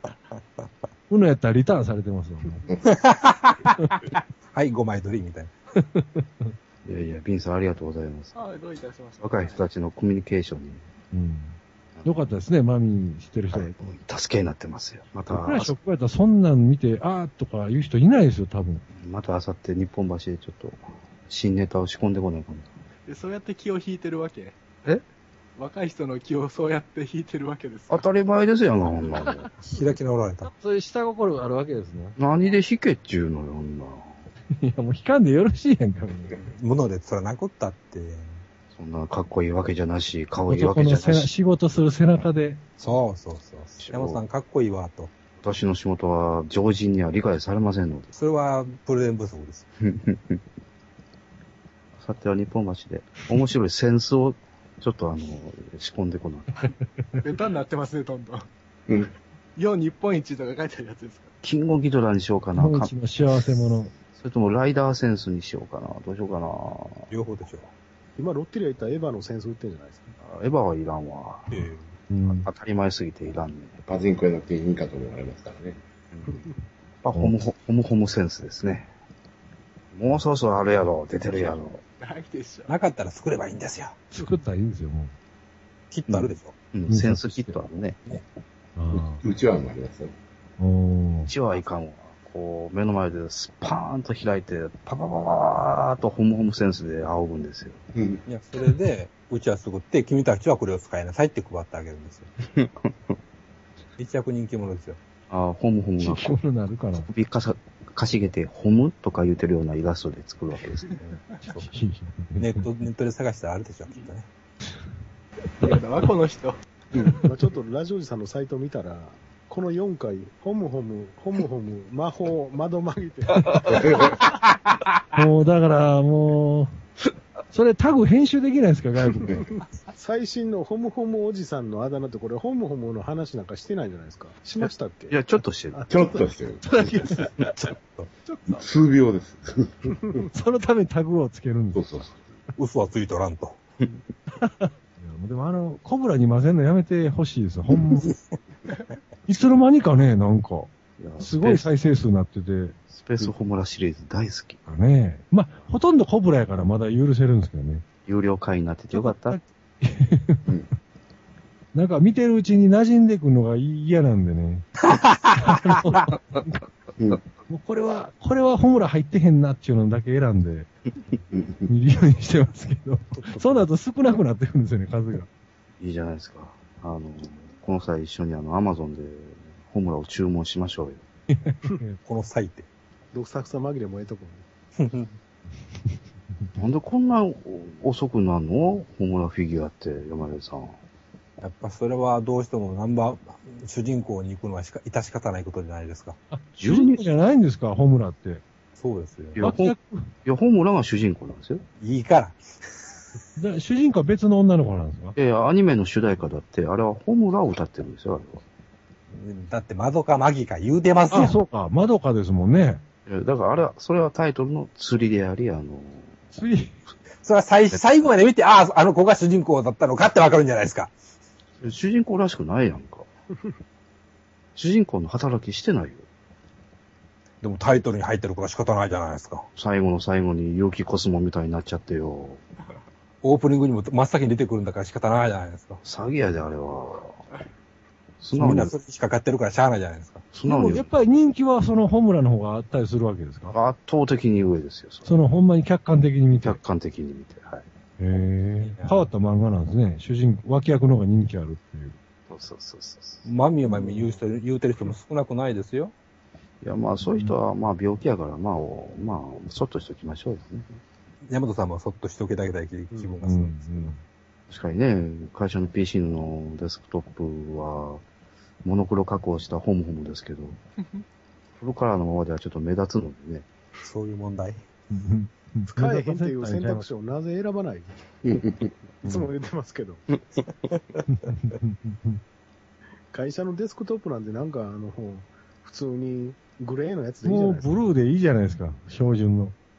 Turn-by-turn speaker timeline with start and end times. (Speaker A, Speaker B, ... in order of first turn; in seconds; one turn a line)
Speaker A: 1.1-2.6
Speaker B: 2.8-5.5
Speaker A: 5.9-6.5
Speaker C: 6.8-8.3
Speaker D: 8.3-9.6
Speaker C: 9.2-10.8
Speaker A: 11.1-13.8
Speaker C: 13.5-15.7
Speaker A: 15.3-18.8
Speaker C: 18.9-22.7
Speaker D: 23.1-24.6
Speaker D: 25.6-28.1
Speaker C: 27.9-29.5
Speaker B: 29.6-30.5
Speaker A: 30.4-32.2
Speaker C: 32.2-34.1
Speaker A: 34.6-36.3
Speaker B: 36.4-38.4
Speaker C: 38.7-41.3
Speaker A: 40.5-42.6
Speaker B: 42.8-45.1
Speaker C: 43.8-44.2
Speaker C: 45.4-48.1
Speaker B: 48.1-49.7
Speaker C: 49.8-50.4
Speaker C: 52.0-56.7
Speaker D: 57.2-58.5
Speaker D: 59.5-61.3
Speaker C: 61.4-62.9
Speaker A: 62.5-63.9
Speaker C: 64.1-67.1
Speaker B: 67.1-67.7
Speaker E: 68.2-70.1
Speaker C: 70.2-71.7
Speaker B: 71.5-72.0
Speaker A: 72.1-72.5
Speaker C: 72.3-73.8
Speaker F: 73.8-75.8
Speaker C: 76.1-76.4
Speaker C: 77.0-78.9
Speaker C: 79.9-81.8
Speaker D: 82.0-82.7
Speaker B: 82.7-84.0
Speaker A: 84.1-85.1
Speaker B: 85.9-86.5
Speaker C: 86.1-88.0
Speaker A: 86.9-87.6
Speaker A: 88.8-89.2
Speaker F: 88.9-90.1
Speaker A: 90.6-91.3
Speaker C: 91.2-97.8
Speaker F: 97.9-98.2
Speaker B: 98.3-102.3
Speaker C: 102.5-102.9
Speaker B: 104.0-105.0
Speaker C: 105.3-106.4
Speaker A: 106.0-107.1
Speaker C: 107.0-110.9
Speaker B: 111.0-111.7
Speaker A: 111.5-112.7
Speaker B: 112.4-114.3
Speaker D: 115.6-116.6
Speaker E: 117.2-123.8
Speaker F: 123.7-124.2
Speaker A: 125.1-126.8
Speaker A: 127.5-129.3
Speaker E: 129.3-136.2
Speaker C: 134.6-135.8
Speaker F: 135.9-137.2
Speaker A: 136.7-137.3
Speaker B: 137.8-138.1
Speaker F: 138.5-140.2
Speaker E: 139.9-140.2
Speaker A: 140.3-141.8
Speaker F: 141.7-142.3
Speaker B: 142.6-143.6
Speaker A: 144.4-148.1
Speaker A: 149.3-152.8
Speaker C: 151.0-151.7
Speaker C: 152.9-154.6
Speaker A: 154.7-157.8
Speaker C: 158.1-159.4
Speaker A: 158.9-160.4
Speaker A: 161.7-164.7
Speaker B: 164.9-165.8
Speaker A: 165.4-166.6
Speaker A: 167.5-170.7
Speaker F: 171.3-171.7
Speaker A: 171.7-175.3
Speaker C: 175.8-181.0
Speaker A: 181.3-182.0
Speaker B: 182.0-182.7
Speaker E: 183.1-184.4
Speaker B: 184.8-185.1
Speaker C: 186.6-190.8
Speaker B: 191.4-196.2
Speaker A: 196.3-198.4
Speaker C: 196.6-197.0
Speaker B: 198.8-199.4
Speaker C: 199.3-201.6
Speaker A: 199.4-200.1
Speaker B: 201.8-202.9
Speaker A: 203.4-205.2
Speaker C: 205.2-208.4
Speaker B: 209.1-211.4
Speaker A: 211.1-212.8
Speaker C: 213.1-216.1
Speaker A: 216.3-216.8
Speaker B: 217.2-220.9
Speaker C: 221.6-223.1
Speaker C: 224.6-226.0
Speaker B: 227.4-229.5
Speaker C: 229.6-232.4
Speaker B: 233.2-235.8
Speaker C: 235.8-237.2
Speaker C: 238.2-238.7
Speaker B: 238.3-240.2
Speaker C: 240.3-240.9
Speaker A: 240.4-243.5
Speaker C: 243.5-245.1
Speaker A: 245.0-246.6
Speaker C: 246.3-247.7
Speaker A: 248.0-252.0
Speaker B: 248.6-249.1
Speaker C: 252.3-254.2
Speaker B: 253.2-255.9
Speaker C: 256.6-260.8
Speaker B: 261.3-263.9
Speaker E: 262.9-263.2
Speaker A: 263.2-264.0
Speaker C: 264.5-268.0
Speaker C: 268.6-270.6
Speaker C: 271.6-273.4
Speaker B: 273.8-274.6
Speaker A: 274.9-276.9
Speaker E: 275.7-277.9
Speaker F: 278.2-278.7
Speaker E: 279.0-280.0
Speaker A: 279.0-279.3
Speaker A: 281.1-282.2
Speaker E: 283.1-287.7
Speaker A: 287.2-289.5